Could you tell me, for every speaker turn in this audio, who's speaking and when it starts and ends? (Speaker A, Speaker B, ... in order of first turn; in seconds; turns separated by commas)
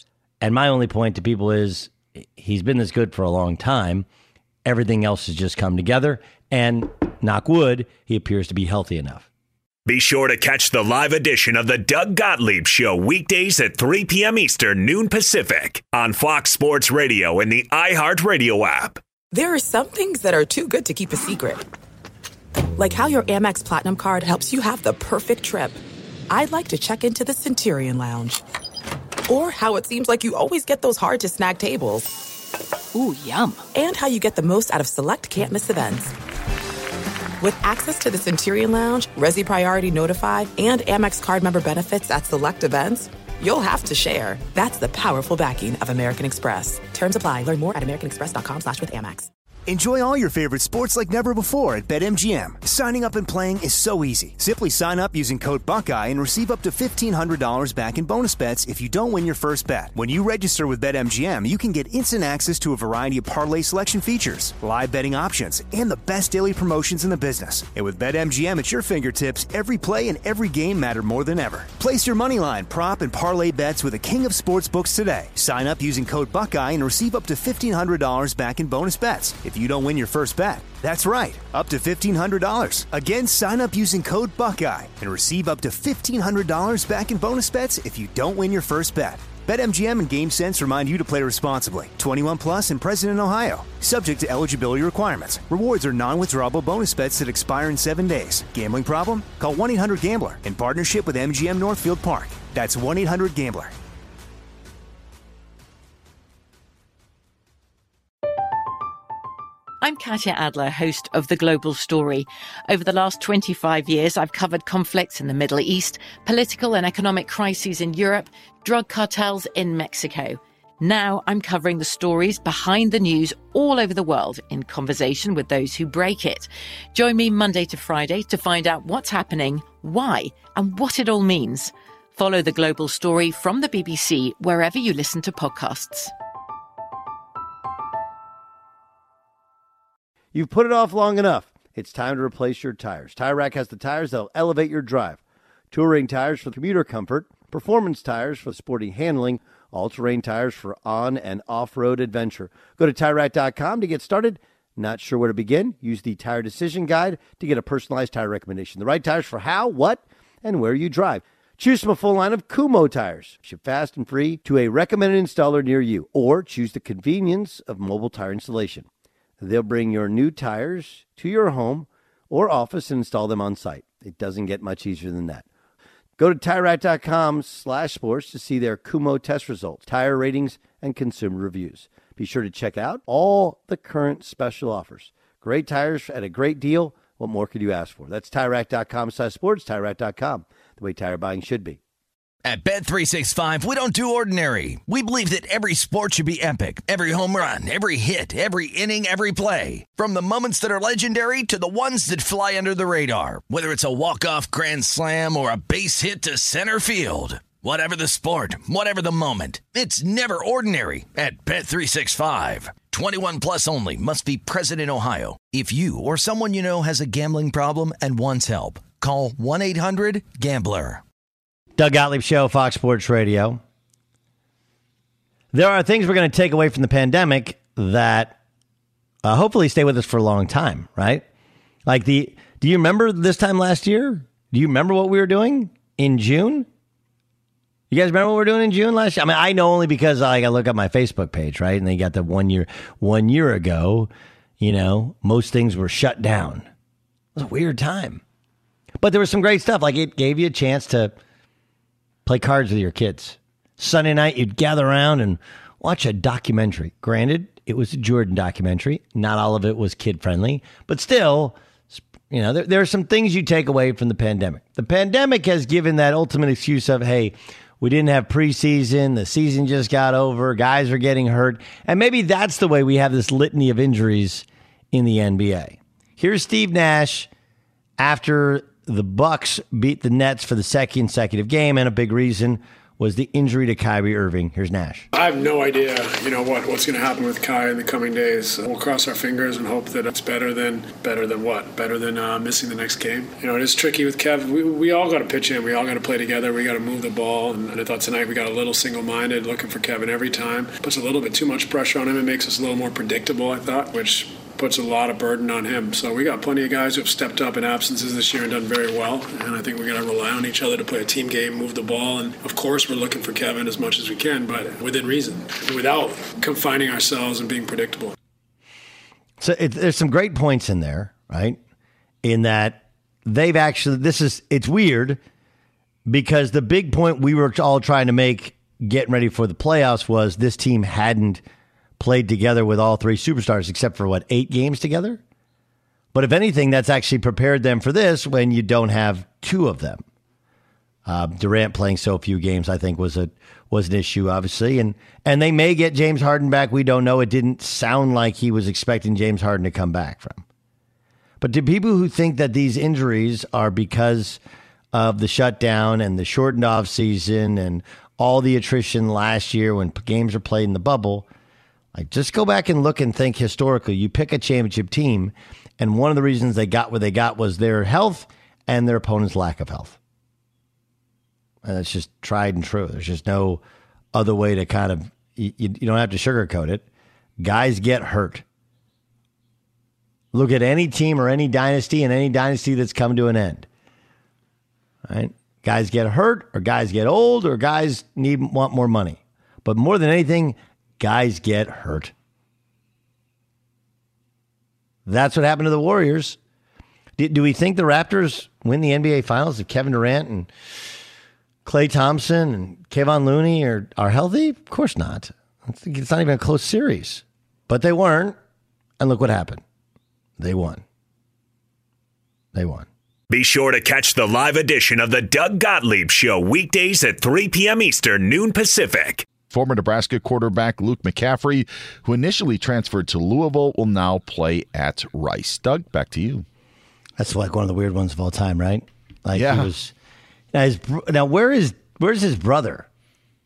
Speaker A: 0.4-4.0, Speaker A: 4.6-9.3, Speaker B: 9.8-19.0, Speaker C: 19.3-21.6, Speaker C: 22.8-28.4, Speaker C: 29.3-32.1, Speaker D: 32.9-33.6, Speaker C: 33.7-36.1, Speaker C: 37.4-49.3, Speaker E: 49.7-103.7, Speaker D: 109.8-136.1, Speaker A: 140.3-145.2, Speaker A: 145.7-168.8, Speaker A: 169.4-175.4, Speaker A: 176.2-191.8, Speaker F: 192.4-221.0, Speaker A: 221.8-223.6, Speaker A: 225.5-228.3, Speaker A: 229.2-231.2, Speaker A: 231.9-236.7, Speaker A: 237.9-244.1, Speaker A: 244.6-246.7, Speaker A: 247.3-248.2, Speaker A: 249.0-251.1, Speaker A: 252.2-277.3, Speaker A: 278.0-285.1, Speaker G: 285.1-318.1, Speaker A: 319.4-321.6, Speaker A: 322.2-325.2, Speaker A: 326.1-331.4, Speaker A: 332.0-335.2, Speaker A: 336.1-340.0, Speaker A: 341.1-350.4, Speaker A: 351.4-354.4, Speaker A: 354.9-361.3, Speaker A: 361.9-370.0, Speaker A: 371.6-373.6, Speaker A: 374.1-376.8, Speaker A: 377.4-378.4, Speaker A: 380.3-383.7, Speaker A: 385.1-392.1, Speaker A: 395.1-396.4, Speaker A: 397.2-400.5, Speaker A: 401.6-408.4, Speaker A: 409.0-409.6, Speaker A: 410.4-410.8, Speaker A: 412.5-412.9, Speaker B: 413.3-419.3, Speaker H: 419.5-426.4, Speaker A: 427.2-429.9, Speaker H: 429.3-429.7, Speaker A: 430.5-432.9